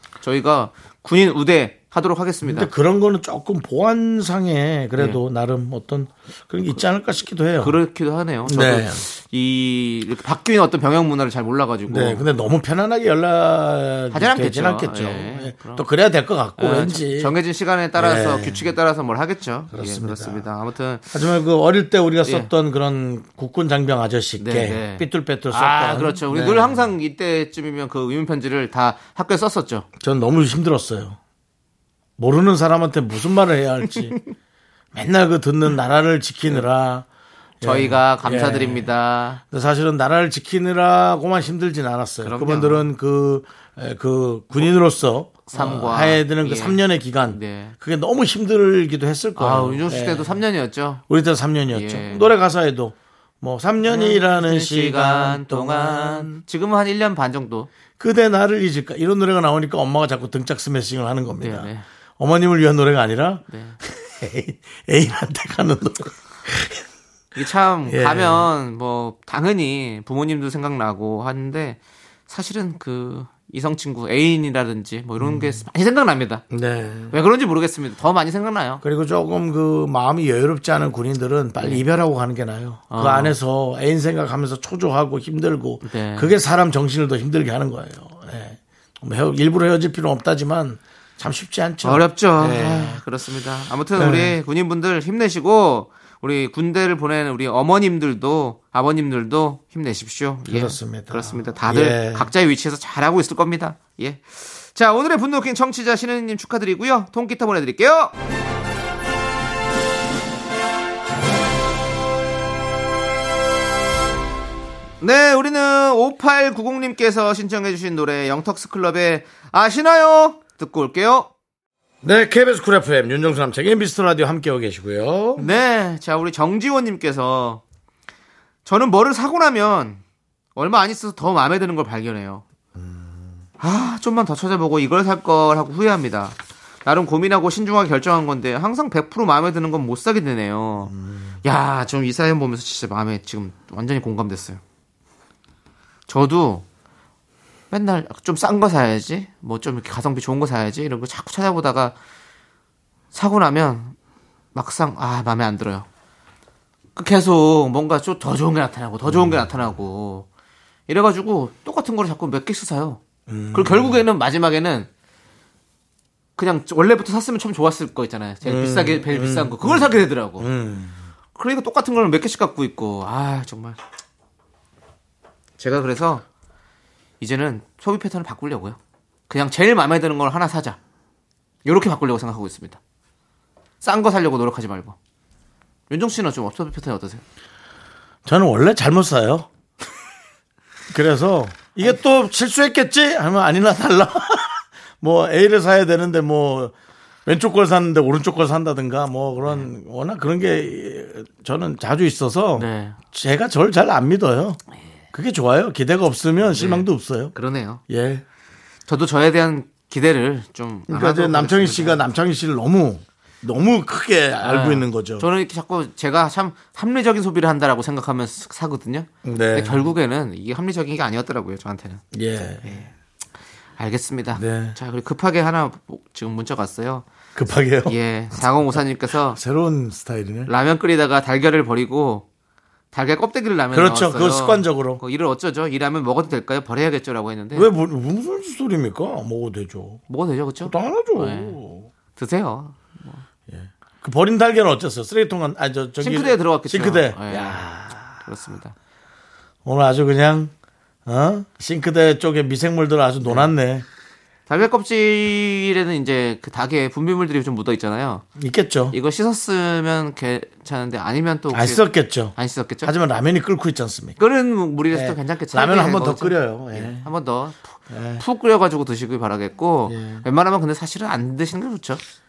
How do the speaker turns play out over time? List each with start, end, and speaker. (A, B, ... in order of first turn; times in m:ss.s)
0:00.2-0:02.7 A
0:02.4-0:07.8 B
0:07.6-0:12.3 A
0:08.4-0:09.0 B
0:11.9-0:17.3 B
0:14.1-0:15.9 A
0:16.6-0:21.1 A
0:18.0-0:18.6 B
0:19.7-0:20.4 B
0:21.1-0:26.9 B
0:24.4-0:29.9 A
0:30.0-0:31.2 B
0:32.2-0:34.2 B
0:34.9-0:37.1 B
0:37.6-0:38.9 B
0:37.6-0:39.4 A
0:39.5-0:50.4 B
0:42.2-0:42.9 A
0:45.5-0:47.7 A
0:49.4-0:51.0 A
0:51.1-0:56.4 B
0:51.7-0:52.3 A
0:53.8-0:57.7 A
0:58.0-1:06.8 B
1:01.4-1:01.8 A
1:03.5-1:03.8 A
1:07.4-1:16.4 A
1:07.9-1:08.5 B
1:15.2-1:15.6 B
1:16.5-1:17.2 B
1:17.1-1:18.8 A
1:18.8-1:33.0 B
1:22.9-1:23.4 A
1:25.8-1:26.3 A
1:31.8-1:48.1 A
1:34.0-1:34.4 B
1:40.5-1:42.3 B
1:55.0-2:01.3 A
2:02.0-2:05.5 B
2:05.4-2:07.6 A
2:08.6-2:10.0 A
2:10.6-2:12.4 A
2:12.8-2:13.2 B
2:13.6-2:24.6 A
2:20.9-2:21.4 B
2:26.1-2:26.6 A
2:27.7-2:32.0 A
2:33.1-2:34.0 A
2:34.5-2:35.9 A
2:37.0-2:40.3 A
2:39.1-2:39.5 B
2:40.9-2:43.0 A
2:43.3-2:44.0 B
2:43.5-2:44.9 A
2:46.4-2:50.5 A
2:48.4-2:51.0 B
2:51.4-2:53.8 A
2:55.6-2:56.2 A
2:57.2-2:58.8 A
2:59.3-3:00.8 A
3:01.6-3:02.8 A
3:03.8-3:05.0 A
3:05.9-3:07.2 A
3:08.2-3:09.5 B
3:10.9-3:16.7 B
3:17.2-3:24.6 B
3:22.6-3:23.0 A
3:25.1-3:27.3 B
3:26.5-3:27.8 A
3:27.9-3:28.2 B
3:28.9-3:32.0 A
3:30.9-3:35.2 B
3:34.4-3:42.0 A
3:39.2-3:39.8 B
3:42.1-3:42.8 B
3:42.6-3:42.9 A
3:43.8-3:47.1 A
3:44.4-3:44.8 B
3:47.4-3:48.0 B
3:47.9-3:49.4 A
3:49.3-3:50.5 B
3:50.5-3:52.2 A
3:52.9-3:57.7 A
3:53.7-3:55.0 B
3:57.5-4:00.0 B
4:00.1-4:01.6 A
4:00.6-4:01.9 B
4:02.1-4:03.2 A
4:03.5-4:08.2 B
4:06.0-4:07.6 A
4:08.2-4:08.7 A
4:09.6-4:10.5 B
4:11.1-4:13.9 B
4:13.2-4:13.5 A
4:14.5-4:18.2 A
4:18.4-4:19.0 B
4:18.9-4:22.9 A
4:21.5-4:24.2 B
4:24.2-4:32.0 A
4:24.9-4:27.1 B
4:27.9-4:28.2 B
4:29.9-4:30.2 B